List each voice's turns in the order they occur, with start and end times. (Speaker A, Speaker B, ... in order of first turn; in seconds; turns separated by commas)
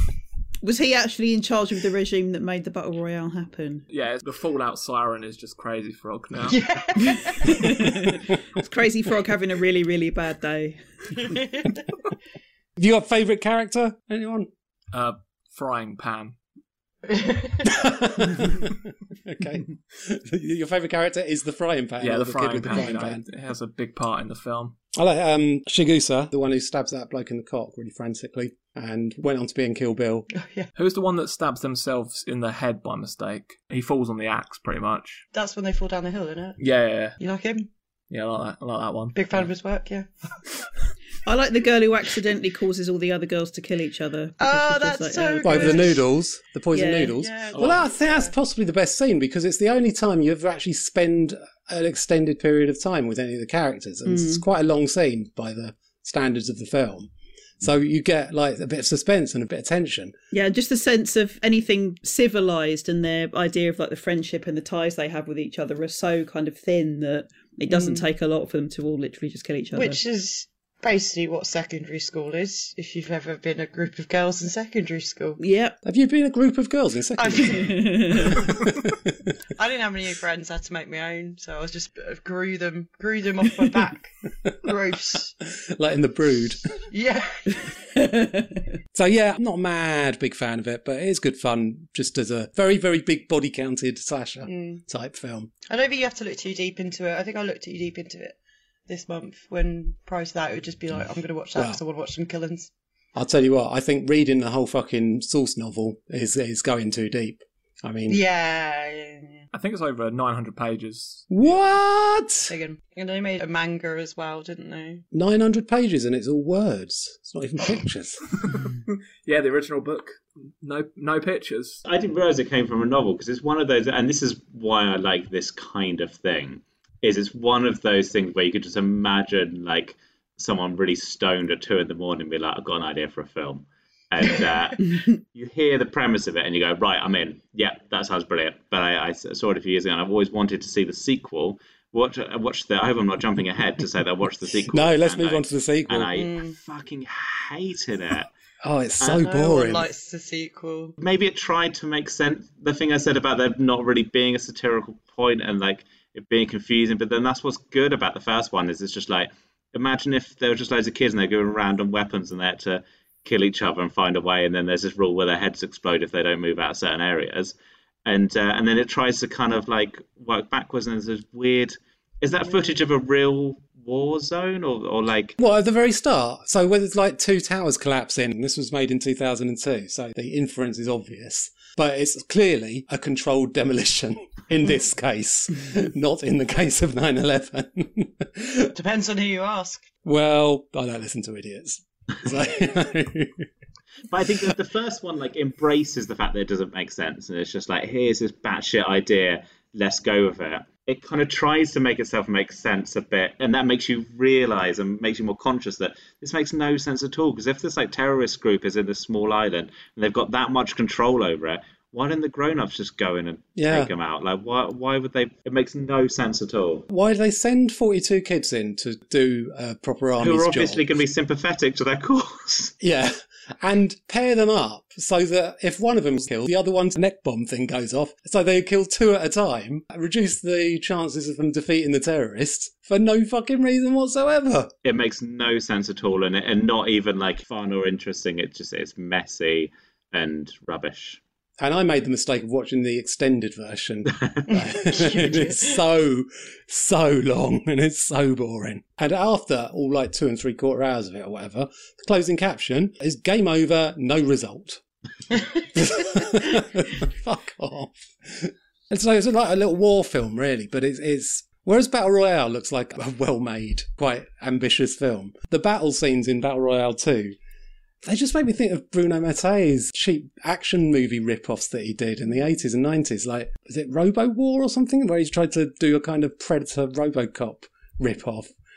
Speaker A: 0.6-3.9, Speaker B: 3.9-6.6, Speaker C: 6.5-7.6, Speaker A: 7.0-10.8, Speaker C: 11.2-11.8, Speaker D: 12.8-14.5, Speaker B: 14.9-16.4, Speaker C: 17.1-17.6, Speaker D: 17.6-23.2, Speaker B: 22.0-24.8, Speaker D: 24.9-30.3, Speaker C: 30.4-30.7, Speaker B: 30.8-35.2, Speaker C: 35.3-36.6, Speaker B: 36.6-37.2, Speaker C: 37.2-37.7, Speaker B: 38.1-39.5, Speaker C: 39.1-40.1, Speaker A: 41.2-45.9, Speaker C: 44.4-46.0, Speaker D: 45.4-57.1, Speaker A: 46.7-47.1, Speaker C: 47.1-48.3, Speaker B: 47.5-47.9, Speaker A: 54.1-54.4, Speaker D: 57.6-60.1, Speaker A: 60.3-70.0, Speaker C: 67.7-68.1, Speaker C: 69.7-75.4, Speaker A: 75.4-75.8, Speaker D: 75.8-79.2, Speaker C: 77.2-78.4, Speaker A: 77.6-78.4, Speaker C: 79.6-85.3, Speaker D: 85.6-86.6, Speaker C: 86.9-87.8, Speaker A: 88.0-88.6, Speaker D: 88.9-95.5, Speaker C: 94.5-94.8, Speaker C: 95.7-98.4, Speaker C: 98.9-102.7, Speaker D: 103.2-108.2, Speaker C: 108.1-109.5, Speaker B: 109.5-111.5, Speaker D: 111.3-112.5, Speaker C: 112.5-115.0, Speaker D: 115.1-118.2, Speaker B: 119.2-121.8, Speaker E: 121.9-148.3, Speaker D: 144.7-146.1, Speaker C: 146.2-146.6, Speaker D: 148.6-149.9, Speaker C: 149.1-151.0, Speaker E: 151.0-175.4, Speaker D: 175.4-188.7, Speaker C: 188.8-189.9, Speaker D: 190.0-193.5, Speaker E: 194.1-216.9, Speaker D: 213.6-213.9, Speaker D: 216.9-220.8, Speaker E: 220.2-222.7, Speaker D: 222.8-234.7, Speaker E: 234.8-241.2, Speaker D: 241.6-254.8, Speaker C: 244.5-245.8, Speaker D: 255.7-267.4, Speaker D: 268.0-278.5